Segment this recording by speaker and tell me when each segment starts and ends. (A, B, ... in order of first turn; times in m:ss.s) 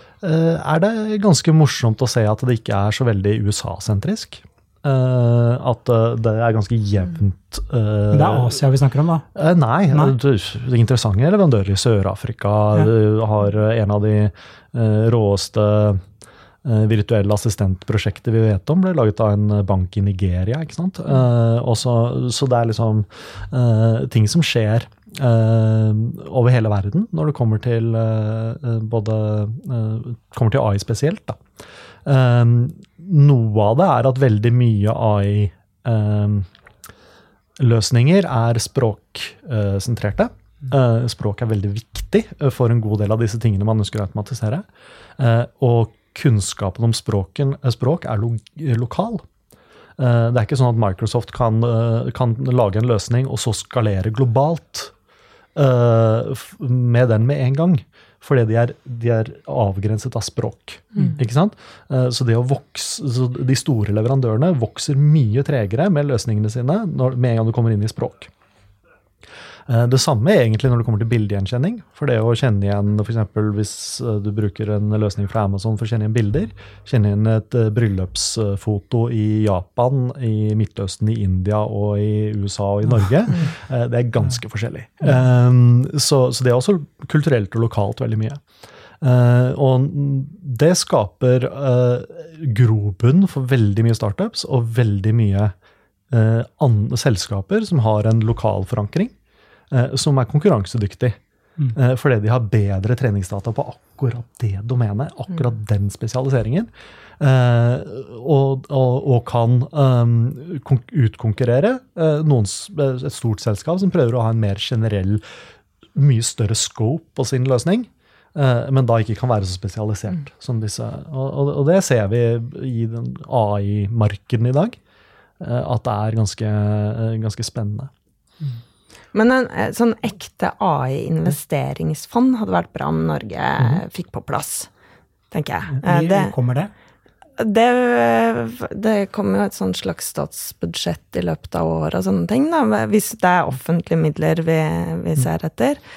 0:00.2-0:08.6 A
0:08.1-0:09.3 B
0:09.4-0:16.0 A
0:16.6-0:31.4 A
0:32.0-0:36.5 A
0:37.6-0:44.6 A
0:45.2-0:49.2 A
0:50.0-0:54.9 A
0:55.6-1:08.3 A
1:09.7-1:28.4 A
1:29.0-1:35.5 A
1:36.1-1:39.1 A
1:39.7-1:41.2 A
1:41.7-1:46.7 A
1:47.2-1:55.2 A
1:55.9-2:04.8 A
2:05.4-2:07.9 A
2:09.1-2:14.7 C
2:15.3-2:16.3 C
2:15.8-2:16.7 B
2:17.4-2:25.8 C